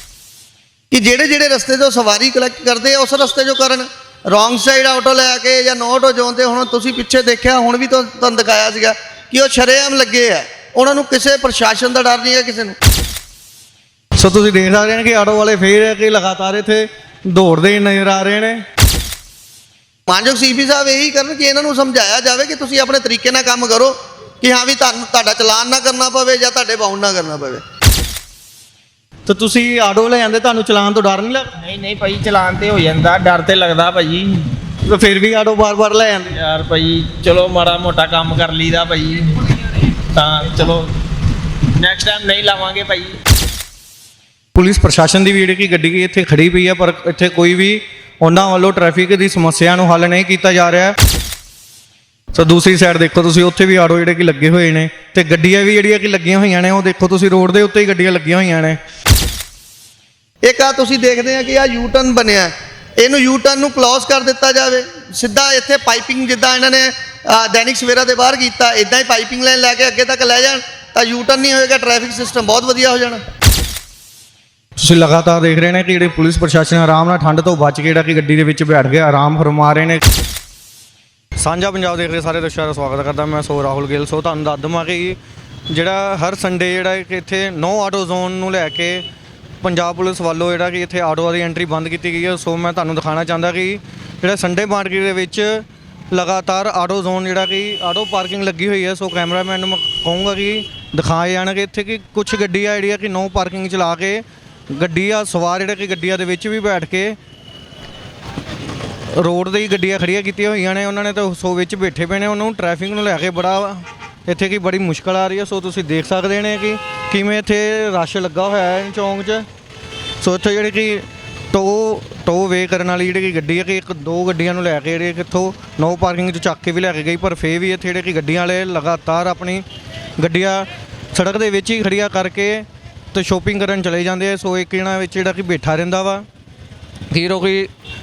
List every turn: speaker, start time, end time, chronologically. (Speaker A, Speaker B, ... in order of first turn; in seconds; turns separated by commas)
Speaker A: 0.9-12.8, Speaker B: 14.2-18.6, Speaker A: 20.1-27.6, Speaker B: 29.3-31.5, Speaker C: 31.6-34.3, Speaker B: 34.9-36.4, Speaker C: 36.4-40.9, Speaker C: 41.8-43.2, Speaker B: 44.5-51.0, Speaker B: 52.3-58.8, Speaker A: 60.4-73.2, Speaker B: 74.8-80.0, Speaker B: 81.4-85.2, Speaker B: 85.7-89.0, Speaker B: 89.6-107.2, Speaker B: 109.1-119.5, Speaker B: 120.2-129.7, Speaker B: 130.2-136.3, Speaker B: 137.1-137.7